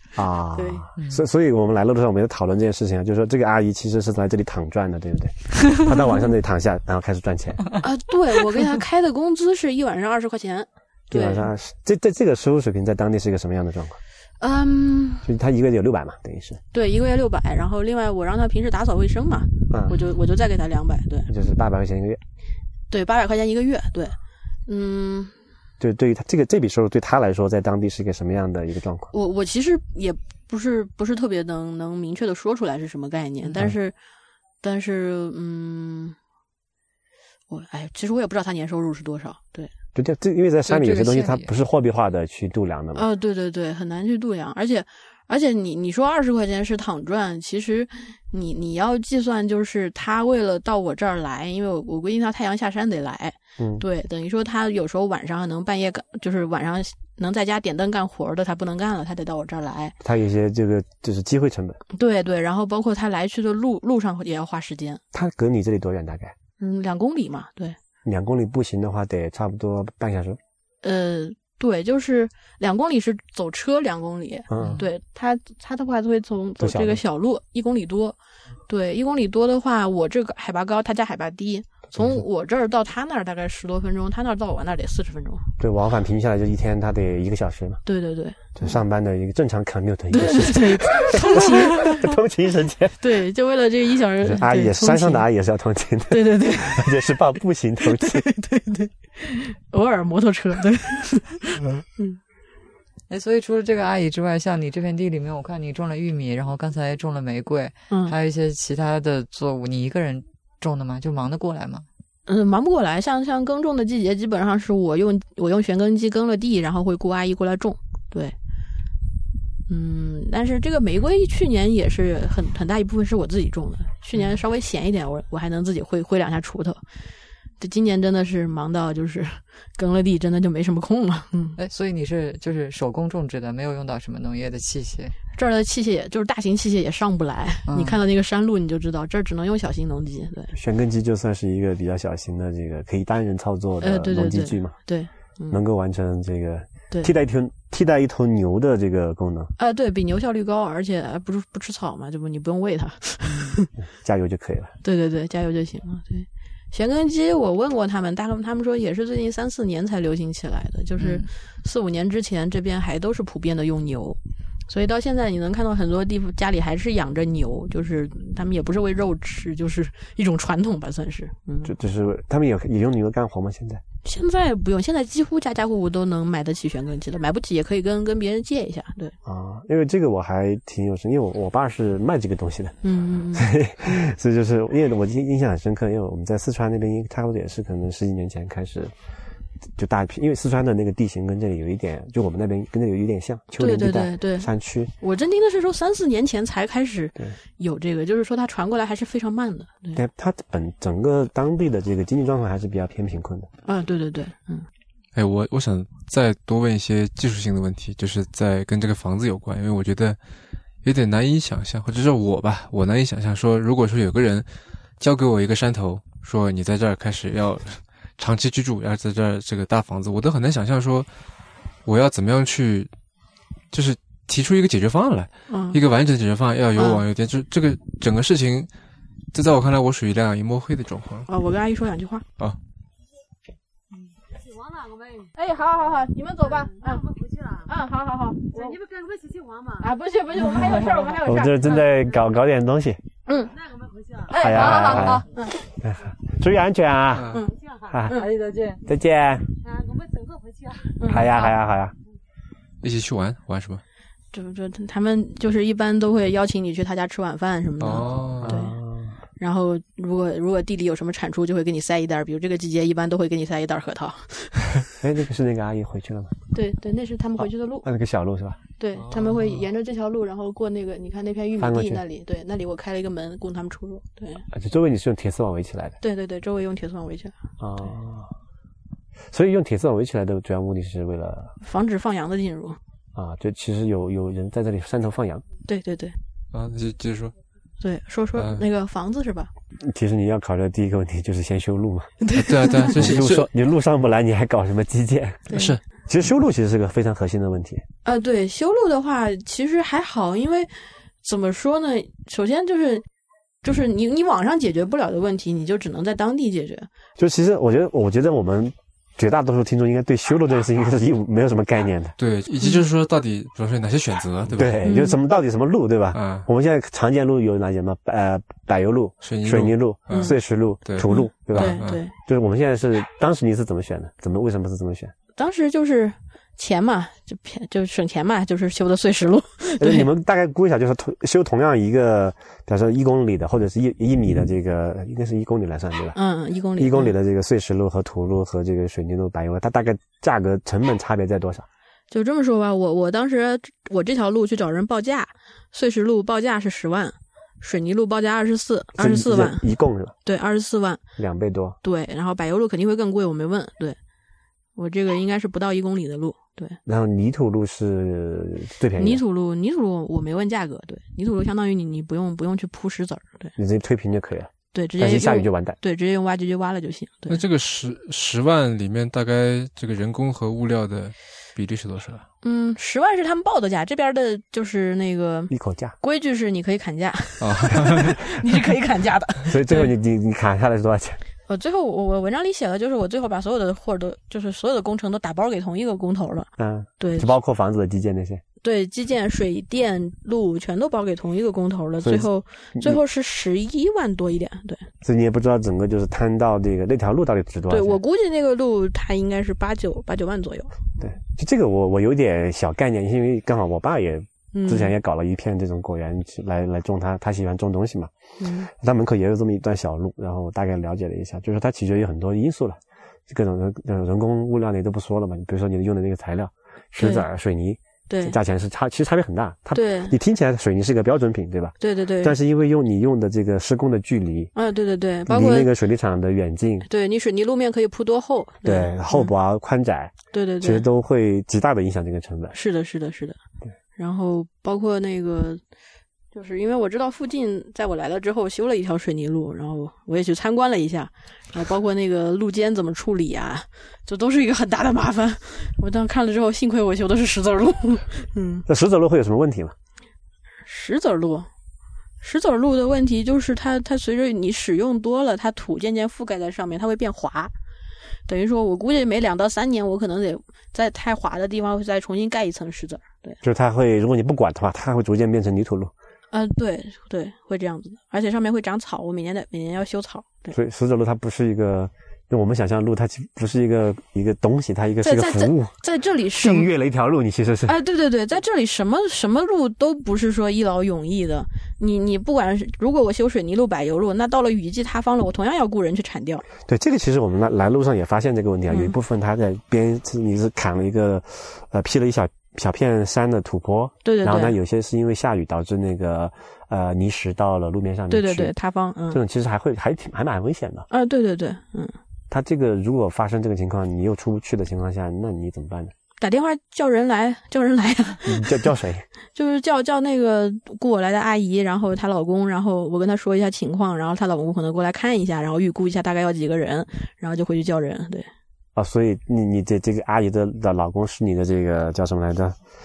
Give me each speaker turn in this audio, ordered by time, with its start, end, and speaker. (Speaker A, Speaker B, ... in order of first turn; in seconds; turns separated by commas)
Speaker A: 0.1-7.7, Speaker B: 0.6-0.9, Speaker B: 7.8-11.5, Speaker A: 11.1-14.0, Speaker B: 14.4-15.3, Speaker A: 15.2-16.6, Speaker B: 16.7-21.3, Speaker A: 19.7-20.0, Speaker A: 21.3-22.2, Speaker B: 22.9-24.1, Speaker B: 24.7-25.3, Speaker A: 25.8-29.1, Speaker B: 29.1-33.9, Speaker B: 34.6-36.1, Speaker B: 37.5-39.7, Speaker A: 39.9-43.0, Speaker C: 40.6-41.5, Speaker B: 42.9-59.9, Speaker A: 53.6-53.8, Speaker A: 60.0-61.8, Speaker B: 61.9-65.0, Speaker A: 65.1-66.3, Speaker B: 66.6-67.8, Speaker A: 68.0-70.4, Speaker B: 70.8-78.2, Speaker A: 74.5-74.8, Speaker A: 76.6-77.0, Speaker B: 78.7-85.5, Speaker A: 82.0-82.2, Speaker A: 85.6-87.8, Speaker B: 87.8-88.5, Speaker A: 88.5-93.0, Speaker B: 90.1-92.1, Speaker B: 93.0-95.2, Speaker A: 94.2-98.2, Speaker B: 96.1-97.0, Speaker B: 97.8-102.2, Speaker C: 103.1-111.8, Speaker B: 107.9-108.1, Speaker B: 112.3-118.3, Speaker B: 119.7-126.8, Speaker B: 127.6-131.6, Speaker C: 131.6-135.1, Speaker B: 135.3-140.5, Speaker C: 137.7-138.0, Speaker A: 140.5-144.8, Speaker B: 143.8-145.6, Speaker A: 145.5-149.5, Speaker B: 149.6-153.7, Speaker A: 154.0-154.7, Speaker B: 154.8-171.7, Speaker C: 161.0-161.2, Speaker A: 171.6-173.8, Speaker B: 174.0-179.1, Speaker A: 179.2-182.8, Speaker B: 182.8-184.1, Speaker A: 183.3-188.9, Speaker A: 189.8-194.9, Speaker B: 193.6-194.5, Speaker B: 195.0-200.0, Speaker A: 199.9-203.5, Speaker B: 203.6-204.7, Speaker D: 205.1-210.2, Speaker D: 210.8-214.5, Speaker D: 215.0-221.1, Speaker D: 221.8-222.9, Speaker D: 223.7-228.7, Speaker B: 225.5-225.8, Speaker B: 226.8-227.0, Speaker D: 229.3-231.3, Speaker B: 231.3-232.2, Speaker E: 234.3-235.3, Speaker B: 235.4-237.0, Speaker E: 236.4-237.7, Speaker B: 237.7-238.7, Speaker E: 238.5-239.9, Speaker B: 239.8-241.8, Speaker E: 240.8-241.1, Speaker A: 241.2-243.0, Speaker B: 243.3-243.5, Speaker E: 243.5-245.2, Speaker B: 244.3-245.6, Speaker A: 244.3-247.3, Speaker D: 247.1-247.4, Speaker E: 247.5-248.0, Speaker A: 247.9-248.2, Speaker C: 248.1-248.8, Speaker A: 248.8-249.4, Speaker E: 249.6-251.0, Speaker B: 251.0-251.5, Speaker A: 251.0-251.9, Speaker D: 252.8-253.8, Speaker B: 254.3-258.8, Speaker D: 257.8-258.6, Speaker A: 258.4-259.1, Speaker B: 259.4-264.9, Speaker A: 265.0-266.4, Speaker B: 266.5-267.9, Speaker A: 267.4-268.6, Speaker B: 268.8-274.4, Speaker A: 271.6-272.0, Speaker A: 274.5-276.0, Speaker B: 276.0-277.3, Speaker A: 277.6-278.3, Speaker A: 279.3-281.6, Speaker B: 281.6-282.8, Speaker A: 283.1-285.4, Speaker B: 285.7-286.1, Speaker D: 286.5-287.3, Speaker B: 287.8-289.5, Speaker D: 288.3-288.6, Speaker A: 289.8-292.3, Speaker B: 292.2-293.0, Speaker D: 292.3-293.5, Speaker A: 292.8-297.8, Speaker B: 295.5-295.8, Speaker D: 295.5-295.8, Speaker B: 298.0-303.0, Speaker B: 303.6-306.9, Speaker A: 307.2-312.1, Speaker D: 312.2-314.9, Speaker A: 314.5-325.1, Speaker B: 314.8-315.2, Speaker D: 316.1-316.4, Speaker D: 319.2-322.0, Speaker B: 320.1-320.4, Speaker B: 321.0-322.1, Speaker B: 325.4-330.1, Speaker A: 329.8-336.2, Speaker B: 336.1-337.1, Speaker A: 336.8-341.6, Speaker B: 342.1-349.6, Speaker A: 349.0-350.1, Speaker B: 350.2-351.0, Speaker A: 351.2-351.8, Speaker B: 351.8-354.0, Speaker B: 354.8-356.8, Speaker A: 356.9-359.2, Speaker B: 359.0-363.5, Speaker A: 363.6-365.8, Speaker B: 364.7-367.4, Speaker D: 367.3-372.2, Speaker B: 372.4-379.9, Speaker A: 375.5-375.9, Speaker D: 377.4-378.2, Speaker A: 379.4-381.2, Speaker B: 381.5-386.5, Speaker A: 386.6-388.4, Speaker B: 387.0-387.3, Speaker B: 388.6-394.9, Speaker A: 392.0-393.0, Speaker A: 395.0-398.0, Speaker B: 397.7-400.7, Speaker A: 401.0-408.1, Speaker B: 404.5-404.9, Speaker B: 408.4-408.7, Speaker A: 408.6-424.5, Speaker B: 417.0-417.2, Speaker B: 418.1-418.4, Speaker B: 419.7-420.1, Speaker B: 421.8-422.4, Speaker B: 424.5-425.7, Speaker A: 425.3-426.9, Speaker B: 426.9-429.3, Speaker A: 428.6-432.6, Speaker B: 430.3-430.8, Speaker B: 432.5-433.4, Speaker B: 434.0-435.6, Speaker B: 436.3-448.6, Speaker A: 448.7-449.7, Speaker B: 450.6-451.5, Speaker B: 452.2-457.5, Speaker B: 458.3-463.4, Speaker A: 463.4-465.9, Speaker B: 466.3-470.5, Speaker A: 470.5-475.7, Speaker B: 475.0-476.7, Speaker A: 476.4-477.7, Speaker B: 477.7-486.4, Speaker A: 486.6-498.5, Speaker B: 488.7-488.9, Speaker B: 494.0-494.5, Speaker B: 498.1-499.2, Speaker A: 499.1-500.9, Speaker B: 500.9-501.9, Speaker A: 502.3-505.9, Speaker B: 506.2-508.7, Speaker A: 508.2-509.0, Speaker B: 509.3-518.3, Speaker A: 518.8-522.6